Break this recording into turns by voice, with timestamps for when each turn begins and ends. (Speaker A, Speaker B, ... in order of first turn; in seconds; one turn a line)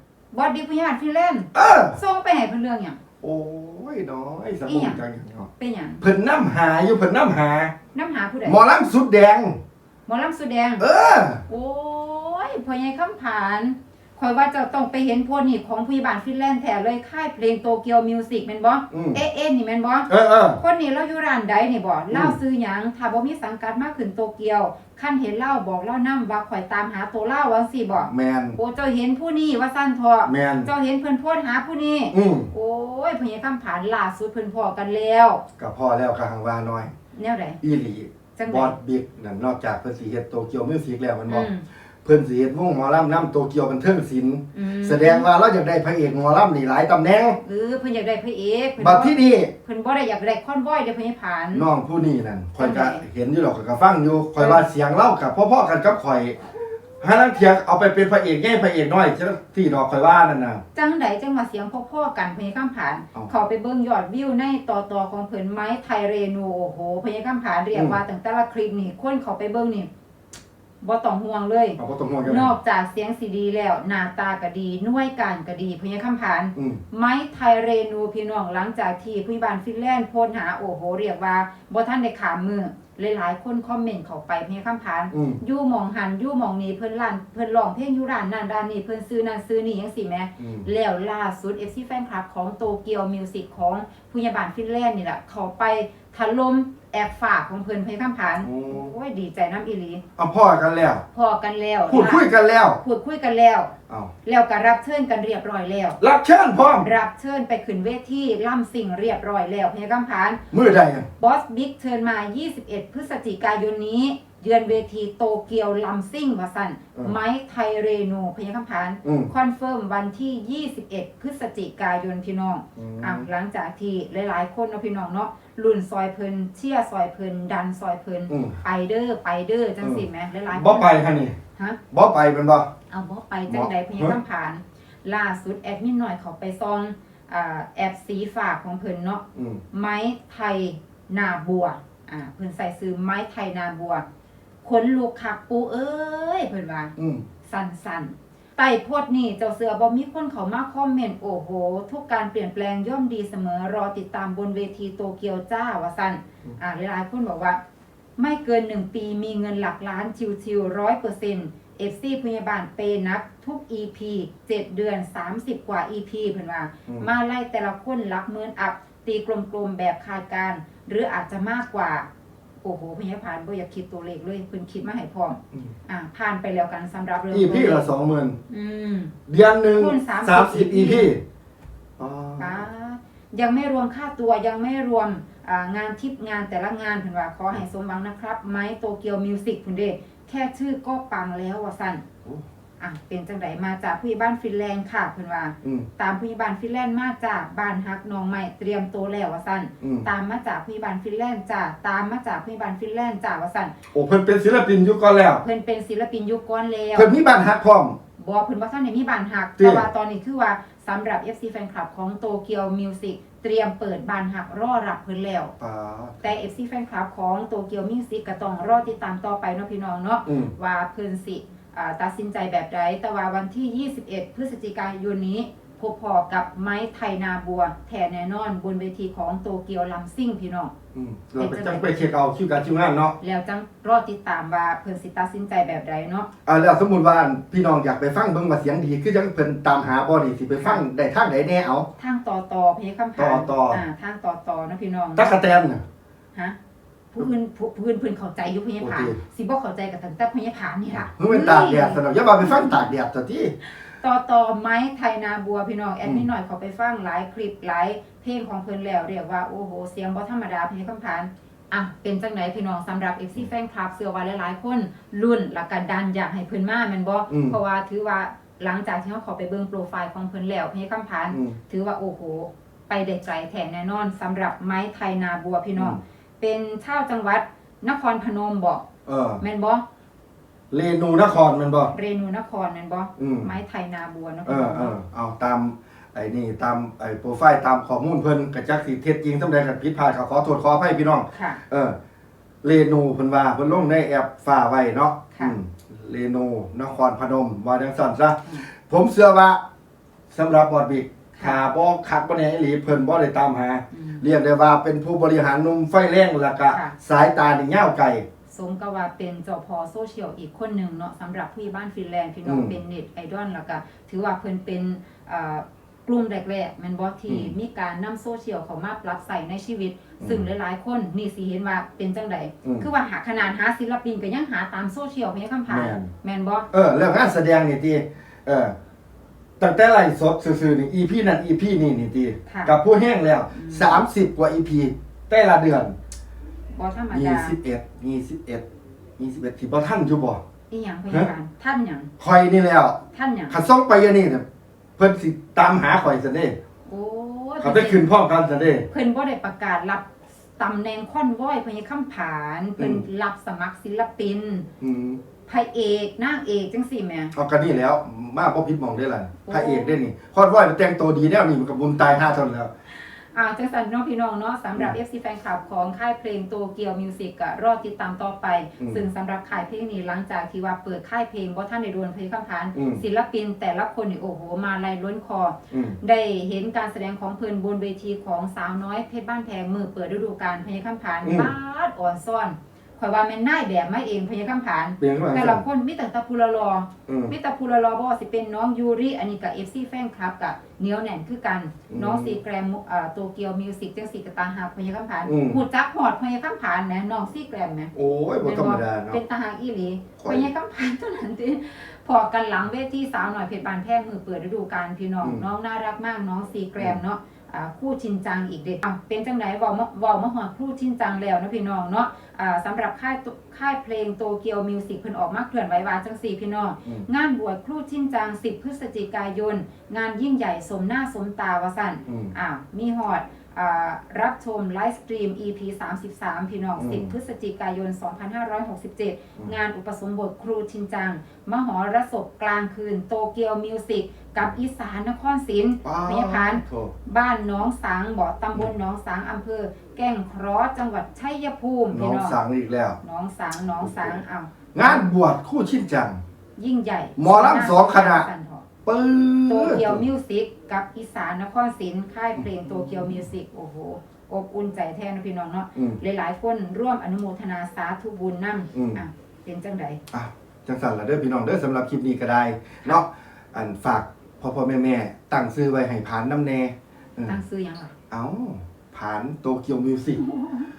Speaker A: 0.3-3.0
Speaker B: 1.5-2.0
Speaker B: 3.2-7.7
Speaker A: 4.7-5.0
Speaker A: 5.6-6.0
Speaker A: 7.9-8.6
Speaker B: 8.5-9.6
Speaker A: 10.1-10.8
Speaker B: 10.8-11.4
Speaker A: 11.5-35.4
Speaker B: 18.9-19.2
Speaker B: 20.1-20.6
Speaker B: 22.1-22.4
Speaker B: 28.0-28.6
Speaker B: 30.3-30.7
Speaker B: 32.1-32.5
Speaker B: 35.6-36.9
Speaker A: 37.1-37.6
Speaker B: 37.6-41.5
Speaker A: 38.4-38.8
Speaker A: 41.3-41.6
Speaker B: 42.0-47.4
Speaker A: 44.5-45.3
Speaker A: 47.4-51.7
Speaker B: 48.8-49.5
Speaker B: 51.5-56.4
Speaker A: 52.6-53.1
Speaker A: 54.4-54.7
Speaker B: 57.0-60.6
Speaker A: 60.7-69.9
Speaker B: 67.7-68.0
Speaker A: 70.8-100.0
Speaker B: 71.8-72.5
Speaker B: 76.6-76.8
Speaker B: 85.1-85.4
Speaker B: 90.4-90.7
Speaker B: 98.4-98.9
Speaker B: 100.2-101.0
Speaker A: 101.1-102.3
Speaker B: 101.9-102.8
Speaker A: 102.8-103.7
Speaker A: 104.2-106.0
Speaker B: 106.0-106.9
Speaker A: 106.8-110.4
Speaker B: 110.5-111.1
Speaker A: 111.2-131.0
Speaker B: 119.0-119.3
Speaker B: 122.8-123.3
Speaker B: 128.3-128.6
Speaker B: 129.8-131.4
Speaker B: 131.9-132.7
Speaker A: 132.9-144.1
Speaker B: 133.5-134.2
Speaker B: 139.3-139.6
Speaker A: 144.6-146.9
Speaker B: 147.0-147.2
Speaker A: 147.5-157.6
Speaker A: 158.2-172.1
Speaker A: 172.6-177.9
Speaker B: 177.3-178.4
Speaker A: 178.5-179.1
Speaker B: 179.3-181.2
Speaker A: 179.7-181.1
Speaker B: 182.0-182.7
Speaker A: 182.4-192.0
Speaker A: 192.8-203.7
Speaker B: 195.6-195.9
Speaker B: 199.8-200.1
Speaker B: 203.9-205.4
Speaker A: 205.4-207.1
Speaker B: 206.9-208.0
Speaker A: 208.2-215.5
Speaker B: 209.6-209.9
Speaker B: 215.6-216.4
Speaker A: 216.2-230.7
Speaker B: 220.3-220.5
Speaker B: 230.9-233.2
Speaker A: 231.4-232.1
Speaker A: 233.2-236.3
Speaker B: 236.5-241.9
Speaker A: 240.6-240.8
Speaker A: 242.0-245.4
Speaker B: 243.2-243.8
Speaker B: 245.2-245.8
Speaker A: 247.1-252.9
Speaker B: 248.8-249.2
Speaker B: 251.1-253.6
Speaker A: 253.8-278.8
Speaker B: 267.3-267.6
Speaker B: 271.3-271.6
Speaker B: 279.1-279.4
Speaker A: 279.4-279.8
Speaker B: 280.7-281.9
Speaker A: 281.9-284.9
Speaker B: 283.2-283.5
Speaker B: 284.5-292.0
Speaker A: 291.3-291.6
Speaker B: 292.6-299.6
Speaker B: 300.3-308.2
Speaker A: 303.9-304.2
Speaker A: 306.7-306.9
Speaker A: 308.5-326.7
Speaker B: 312.4-312.8
Speaker B: 317.3-317.5
Speaker B: 320.2-320.5
Speaker B: 325.7-326.1
Speaker B: 326.7-328.8
Speaker B: 329.6-335.9
Speaker A: 332.5-332.7
Speaker A: 333.5-334.0
Speaker A: 336.7-337.6
Speaker B: 337.1-338.6
Speaker B: 339.2-340.4
Speaker A: 340.7-342.1
Speaker B: 342.2-344.4
Speaker A: 343.1-343.6
Speaker B: 345.0-346.6
Speaker A: 346.9-348.1
Speaker B: 347.6-348.9
Speaker A: 348.9-354.7
Speaker B: 352.8-353.0
Speaker B: 354.8-355.2
Speaker A: 355.5-357.3
Speaker B: 357.3-362.7
Speaker A: 359.5-360.0
Speaker A: 363.3-442.4
Speaker B: 372.7-373.0
Speaker B: 375.7-376.0
Speaker B: 381.2-381.5
Speaker B: 385.0-385.6
Speaker B: 387.1-387.3
Speaker B: 391.9-392.4
Speaker B: 395.3-395.6
Speaker B: 397.9-399.2
Speaker B: 400.2-400.5
Speaker B: 422.1-422.3
Speaker B: 426.8-427.1
Speaker B: 435.8-436.9
Speaker B: 441.9-443.0
Speaker A: 443.0-445.1
Speaker B: 443.8-444.2
Speaker B: 444.7-446.2
Speaker A: 446.6-448.7
Speaker B: 447.2-448.3
Speaker B: 448.9-450.1
Speaker A: 449.5-460.0
Speaker B: 452.4-453.2
Speaker B: 458.7-459.0
Speaker B: 460.1-467.4
Speaker A: 467.3-467.9
Speaker B: 468.1-470.2
Speaker A: 470.2-470.7